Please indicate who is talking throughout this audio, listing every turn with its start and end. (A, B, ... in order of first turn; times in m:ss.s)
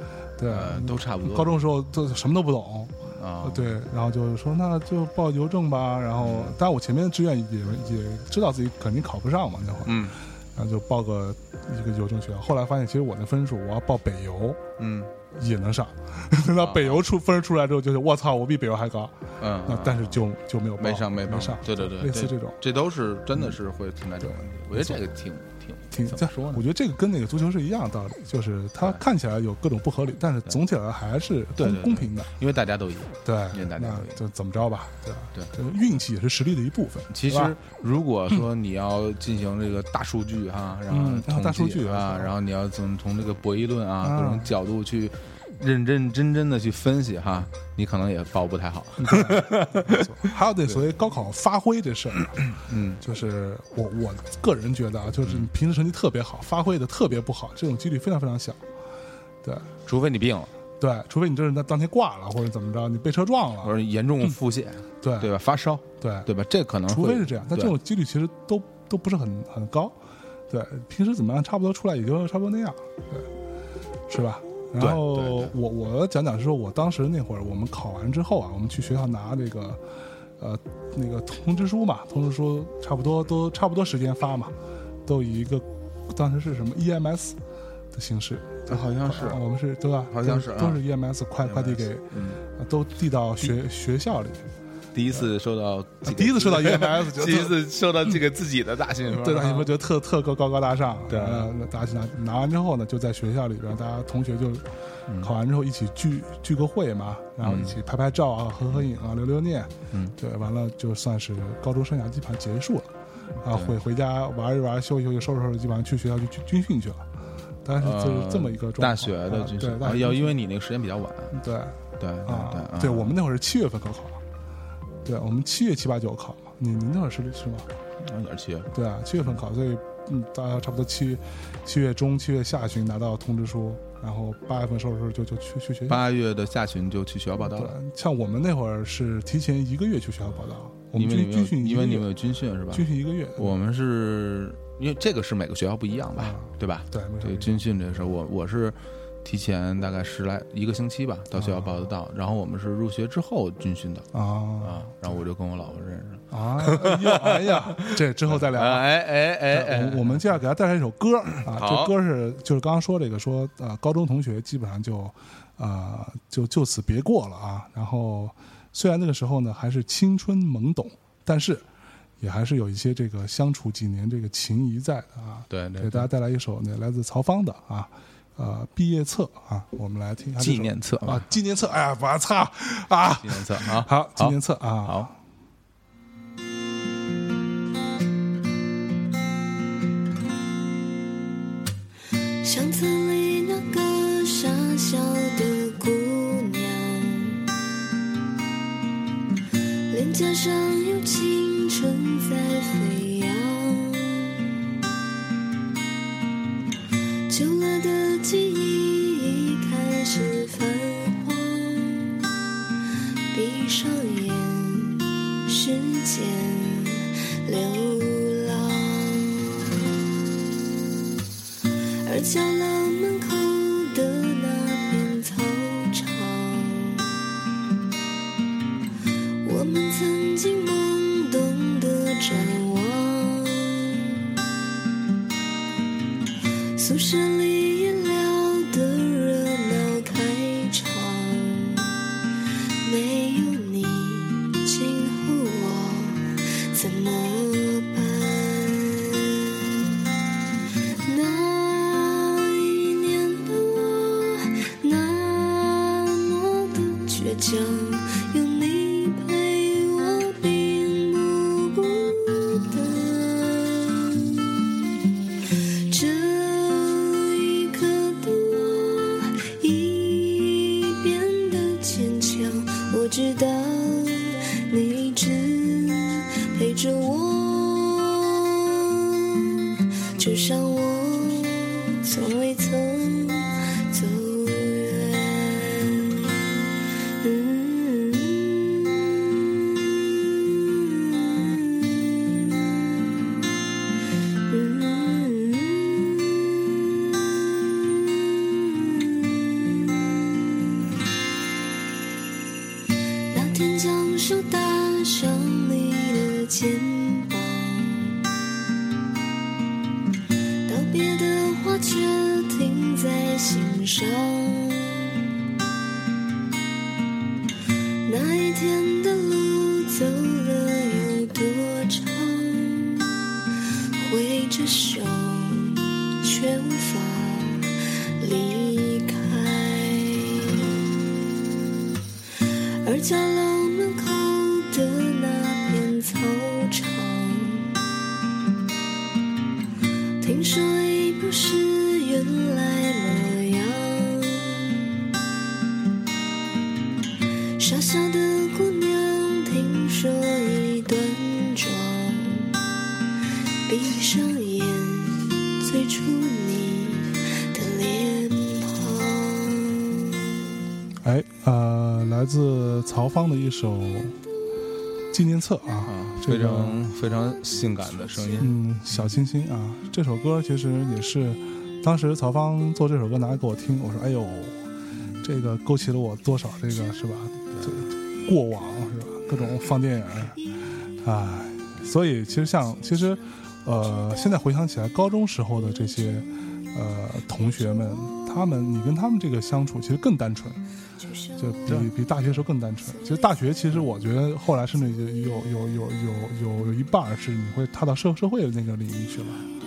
0:00.4-0:14.6 A
0:00.5-0:01.6 B
0:03.1-0:03.8 B
0:06.2-0:06.6 B
0:09.8-0:10.2 B
0:14.8-0:15.1 B
0:15.3-0:22.6 A
0:16.6-0:17.0 B
0:19.4-0:20.2 B
0:20.8-0:26.7 B
0:24.2-0:25.1 A
0:25.9-0:32.3 A
0:31.6-0:34.2 B
0:33.2-0:37.6 A
0:37.1-0:50.8 B
0:40.9-0:42.3 A
0:44.0-0:44.5 A
0:49.0-0:52.4 A
0:52.5-0:53.0 B
0:53.0-0:58.6 A
0:59.9-1:00.5 B
1:00.8-1:03.7 A
1:03.6-1:07.8 B
1:05.0-1:05.3 A
1:06.0-1:06.3 A
1:06.9-1:10.0 A
1:10.5-1:13.3 A
1:14.1-1:19.8 A
1:14.8-1:15.5 B
1:20.4-1:24.5 A
1:25.1-1:27.4 A
1:27.9-1:34.4 A
1:28.7-1:29.4 B
1:30.1-1:30.8 B
1:31.4-1:32.4 B
1:34.9-1:39.7 B
1:36.0-1:37.6 A
1:39.1-1:57.1 A
1:41.1-1:41.5 B
1:47.4-1:47.8 B
1:53.4-1:53.8 B
1:57.6-2:00.4 A
1:57.8-2:01.4 B
2:01.3-2:04.2 A
2:02.0-2:03.2 B
2:05.0-2:07.7 A
2:08.0-2:08.7 B
2:08.7-2:16.0 A
2:15.9-2:17.8 B
2:17.4-2:22.1 A
2:21.0-2:40.4 B
2:22.7-2:23.5 A
2:26.2-2:27.6 A
2:31.4-2:31.9 A
2:34.1-2:34.8 A
2:36.3-2:38.9 A
2:39.5-2:51.6 A
2:41.5-2:41.9 B
2:52.2-3:05.1 A
2:55.5-2:56.1 B
3:00.4-3:01.3 B
3:03.2-3:05.1 B
3:12.4-3:17.5 C
3:19.9-3:24.6 C
3:27.3-3:32.2 C
3:33.3-3:39.7 C
3:42.0-3:47.2 C
3:49.4-3:54.2 C
3:56.8-4:02.1 C
4:02.8-4:10.0 C
4:11.0-4:24.5 C
4:25.4-4:46.6 C
4:47.2-4:52.8 C
4:54.5-5:00.8 C
5:03.3-5:08.3 C
5:10.7-5:15.4 C
5:18.0-5:30.8 C
5:32.4-5:37.8 C
5:40.2-5:44.9 C
5:47.6-5:52.6 C
5:53.7-6:00.4 C
6:01.0-6:04.2 A
6:05.1-6:06.8 A
6:05.8-6:09.1 B
6:08.4-6:14.6 A
6:15.2-6:20.4 A
6:17.5-6:17.8 B
6:21.0-6:30.6 A
6:31.4-6:39.4 A
6:31.7-6:31.9 B